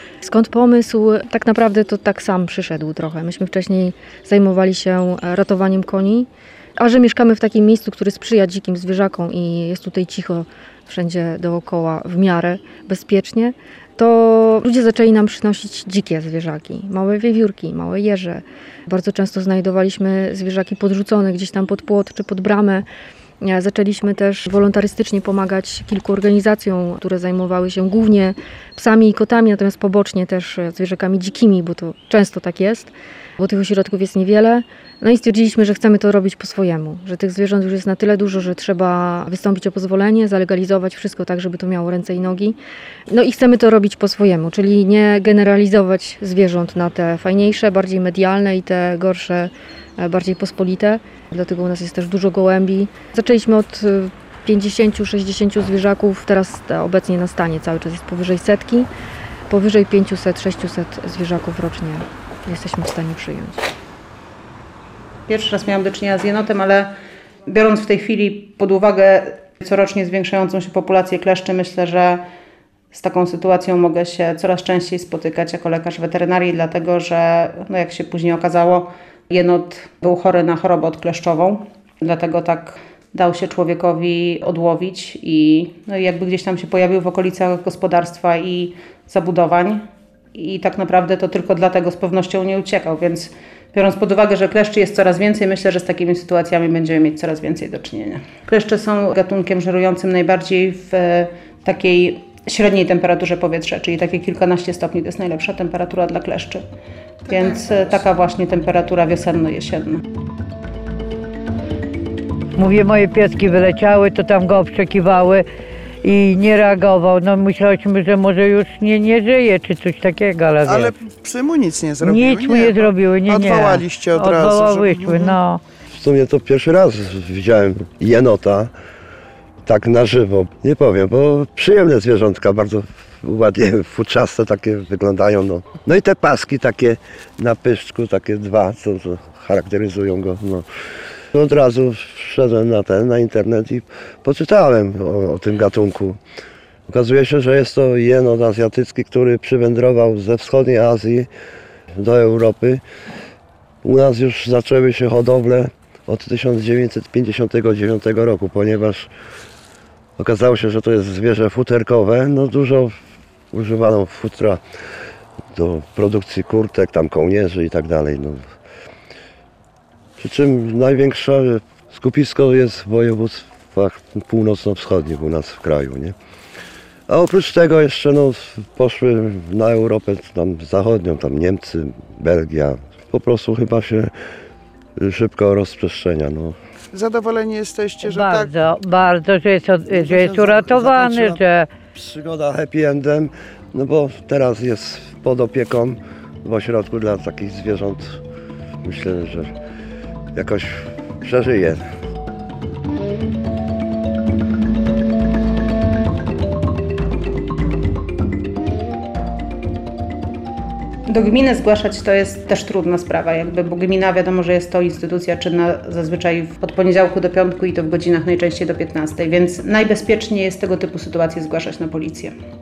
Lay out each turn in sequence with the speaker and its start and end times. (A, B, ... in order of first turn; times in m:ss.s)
0:00.2-0:22.8 A
0:23.4-0:42.6 A
0:43.1-0:58.9 A
0:59.5-1:03.7 A
1:05.3-1:06.9 B
1:07.4-1:12.2 B
1:12.9-1:29.8 B
1:30.3-1:46.6 B
1:47.2-1:48.0 C
1:47.3-1:50.0 B
1:52.6-1:55.4 D
1:56.0-2:00.9 D
2:00.6-2:05.4 C
2:02.0-2:05.6 D
2:05.9-2:08.7 E
2:09.6-2:20.6 E
2:21.3-2:26.2 E
2:26.9-2:31.3 E
2:32.0-2:32.8 E
2:33.8-2:39.1 E
2:40.2-2:43.0 E
2:43.5-2:44.6 E
2:45.5-2:48.5 E
2:50.2-2:56.1 E
2:57.1-3:04.1 E
3:05.0-3:06.6 E
3:06.9-3:08.5 C
3:08.0-3:11.7 D
3:09.9-3:11.4 E
3:11.9-3:18.2 E
3:18.8-3:19.5 E
3:20.3-3:21.8 E
3:31.1-3:42.3 B